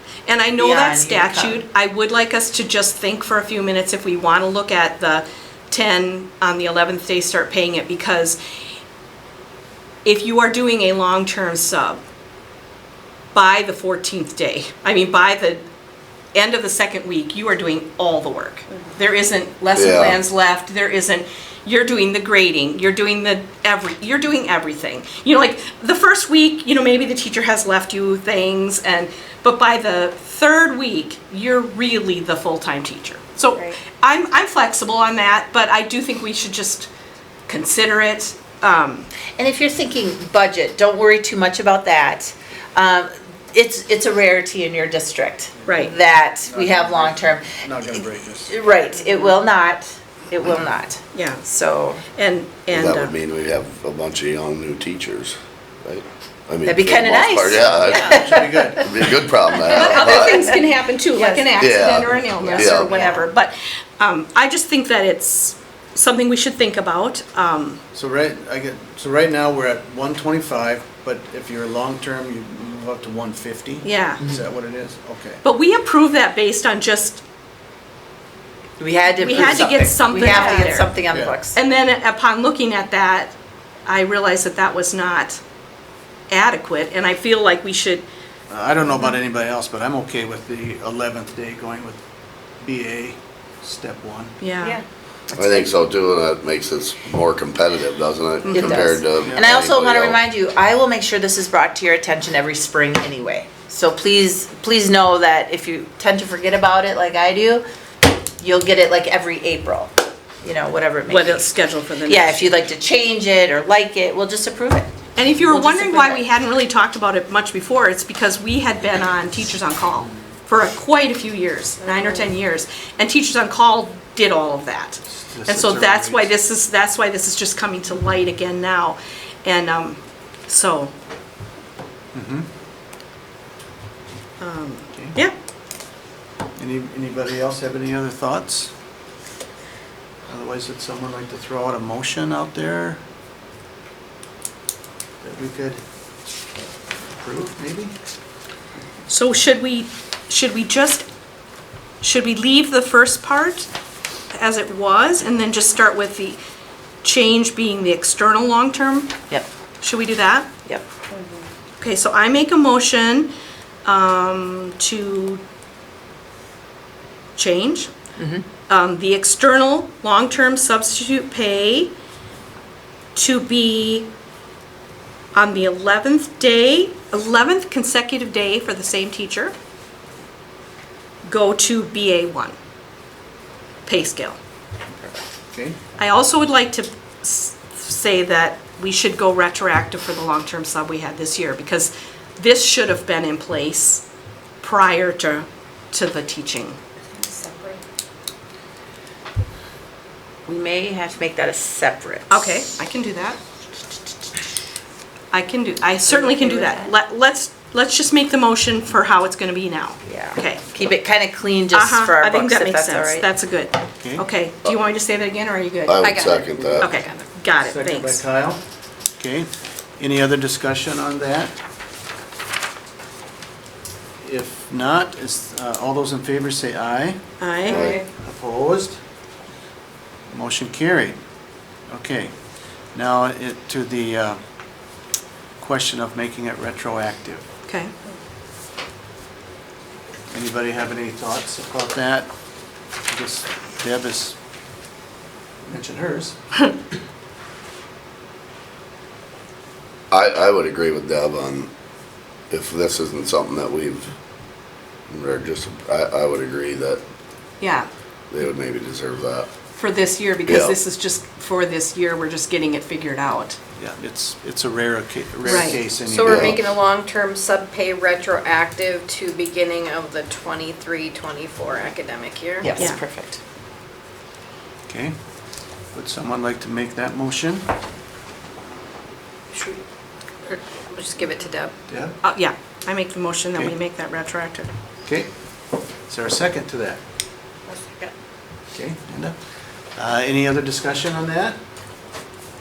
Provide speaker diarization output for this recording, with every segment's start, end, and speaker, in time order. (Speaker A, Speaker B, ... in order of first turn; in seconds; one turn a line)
Speaker A: 0.3-8.4
Speaker B: 0.6-1.6
Speaker A: 10.0-12.0
Speaker A: 13.3-15.6
Speaker A: 16.3-36.9
Speaker C: 19.7-20.2
Speaker A: 37.5-39.1
Speaker B: 39.4-47.6
Speaker D: 45.6-45.9
Speaker A: 45.7-46.0
Speaker D: 46.5-48.5
Speaker B: 48.5-52.0
Speaker A: 51.1-51.4
Speaker A: 52.1-53.1
Speaker C: 52.7-60.6
Speaker B: 56.6-58.8
Speaker D: 57.6-58.9
Speaker A: 59.7-67.8
Speaker B: 59.8-60.6
Speaker B: 61.1-61.6
Speaker C: 61.6-63.1
Speaker B: 62.3-63.2
Speaker D: 67.9-75.4
Speaker A: 73.8-74.2
Speaker A: 75.4-77.2
Speaker B: 78.8-81.6
Speaker A: 79.1-80.9
Speaker A: 81.5-83.3
Speaker A: 83.9-85.4
Speaker A: 86.3-88.0
Speaker D: 88.5-92.0
Speaker D: 92.6-94.4
Speaker A: 94.4-94.8
Speaker C: 95.3-100.2
Speaker A: 98.4-98.9
Speaker B: 98.5-107.6
Speaker D: 99.2-99.5
Speaker B: 108.4-109.9
Speaker B: 110.4-111.5
Speaker A: 111.1-112.5
Speaker B: 112.0-114.9
Speaker A: 115.2-130.9
Speaker B: 115.5-116.2
Speaker D: 125.1-126.3
Speaker D: 132.1-132.5
Speaker A: 134.4-135.3
Speaker D: 136.6-138.7
Speaker D: 140.3-143.0
Speaker D: 145.2-145.8
Speaker D: 147.1-147.9
Speaker A: 149.1-151.0
Speaker A: 152.0-153.7
Speaker A: 154.3-156.4
Speaker A: 157.0-159.1
Speaker A: 159.8-160.5
Speaker A: 161.8-163.3
Speaker A: 163.8-165.4
Speaker A: 167.3-167.9
Speaker B: 168.2-168.4
Speaker A: 168.7-171.9
Speaker A: 173.1-174.1
Speaker A: 175.3-179.5
Speaker A: 181.2-182.6
Speaker A: 183.9-184.4
Speaker D: 184.9-185.8
Speaker A: 186.0-194.0
Speaker A: 194.6-196.8
Speaker E: 197.2-197.8
Speaker B: 200.4-202.3
Speaker A: 202.3-203.4
Speaker A: 205.3-210.6
Speaker B: 206.2-206.8
Speaker B: 210.0-213.3
Speaker A: 211.7-218.2
Speaker C: 215.9-216.9
Speaker E: 216.0-217.2
Speaker D: 216.6-216.9
Speaker D: 217.6-218.6
Speaker D: 219.2-219.5
Speaker D: 220.0-221.6
Speaker D: 224.2-227.2
Speaker A: 227.4-227.9
Speaker C: 227.7-228.0
Speaker E: 227.7-228.0
Speaker D: 228.0-229.0
Speaker D: 230.3-231.2
Speaker D: 231.9-232.3
Speaker D: 232.9-234.4
Speaker D: 235.6-237.4
Speaker A: 237.7-237.9
Speaker D: 240.3-242.3
Speaker D: 243.1-244.4
Speaker D: 245.6-246.4
Speaker C: 250.1-251.7
Speaker C: 252.5-254.1
Speaker C: 255.1-257.0
Speaker A: 257.6-257.9
Speaker C: 258.3-259.5
Speaker A: 259.7-263.6
Speaker C: 260.5-260.8
Speaker D: 263.8-266.6
Speaker A: 265.4-265.8
Speaker E: 266.0-272.8
Speaker C: 266.2-266.6
Speaker B: 272.6-273.4
Speaker D: 274.9-275.1
Speaker D: 275.9-277.6
Speaker E: 279.5-279.8
Speaker E: 280.4-281.7
Speaker D: 281.9-282.2
Speaker A: 282.2-284.7
Speaker D: 286.1-287.0
Speaker E: 287.7-288.1
Speaker D: 288.7-289.3
Speaker D: 290.0-291.6